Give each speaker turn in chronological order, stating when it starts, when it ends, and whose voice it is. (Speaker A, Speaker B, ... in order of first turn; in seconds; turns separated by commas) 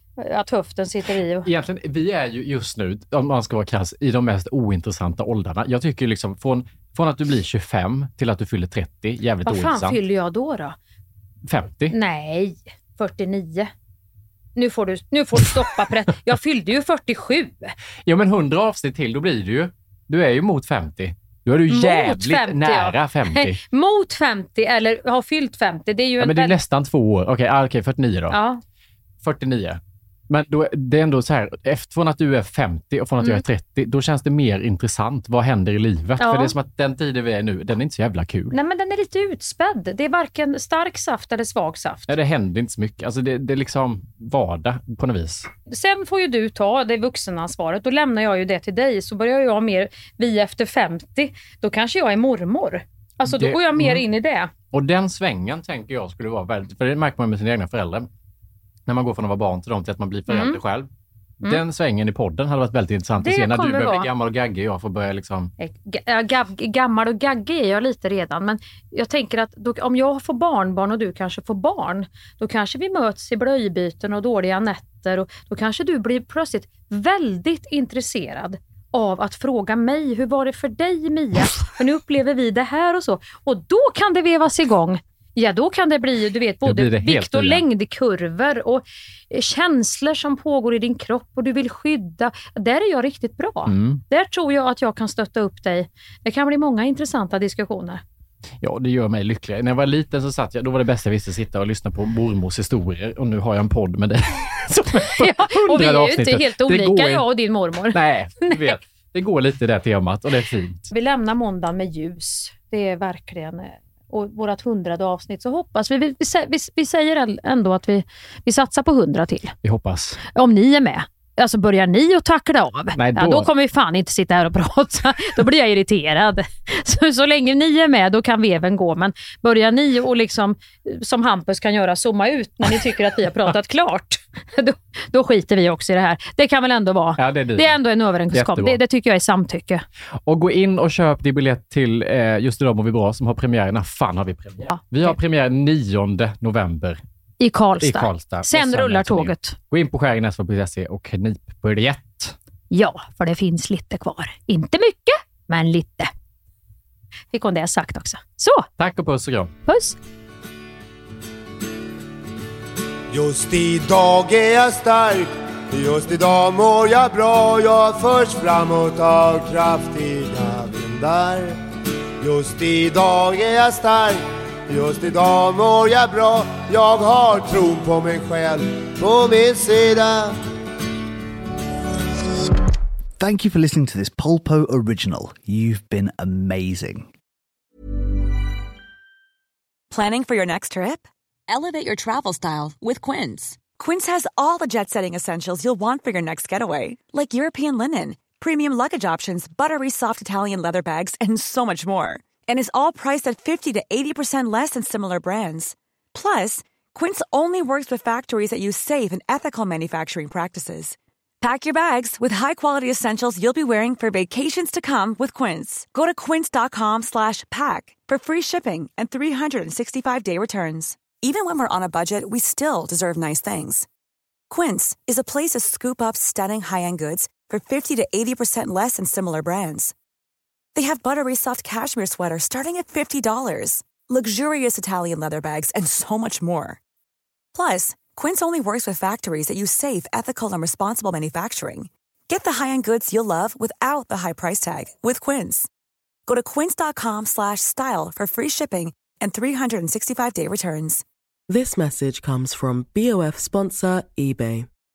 Speaker A: 0.2-1.5, Speaker B: 1.4-10.0, Speaker A: 9.4-10.8, Speaker B: 11.4-11.9, Speaker A: 11.9-13.7, Speaker A: 14.6-17.7, Speaker B: 18.0-23.6, Speaker A: 21.7-26.5, Speaker B: 26.2-28.4, Speaker A: 28.3-28.6, Speaker B: 29.2-38.5, Speaker A: 36.2-36.5, Speaker A: 38.5-42.1, Speaker B: 42.1-45.5, Speaker A: 45.7-54.5, Speaker B: 53.2-54.0, Speaker B: 54.7-58.1, Speaker B: 58.9-60.9, Speaker A: 60.3-60.6, Speaker B: 61.4-65.5, Speaker A: 63.2-64.1, Speaker A: 65.6-98.0, Speaker B: 86.6-87.6, Speaker B: 93.7-94.0, Speaker B: 98.6-107.3, Speaker A: 105.2-108.7, Speaker B: 107.9-110.9, Speaker A: 110.9-119.5, Speaker B: 119.6-120.2, Speaker A: 120.3-139.8, Speaker B: 122.9-123.5, Speaker B: 137.2-137.8, Speaker B: 138.3-138.8, Speaker B: 140.2-147.0, Speaker A: 144.7-145.1, Speaker A: 147.4-149.6, Speaker B: 147.8-152.3, Speaker A: 152.7-156.1, Speaker A: 157.3-158.7, Speaker B: 158.8-159.5, Speaker A: 159.7-160.0, Speaker C: 163.1-171.5, Speaker C: 172.2-180.3, Speaker D: 183.2-187.1, Speaker E: 189.9-223.9, Speaker E: 224.5-229.9, Speaker E: 230.7-236.8, Speaker E: 237.5-245.7, Speaker E: 246.3-251.0, Speaker F: 251.5-254.7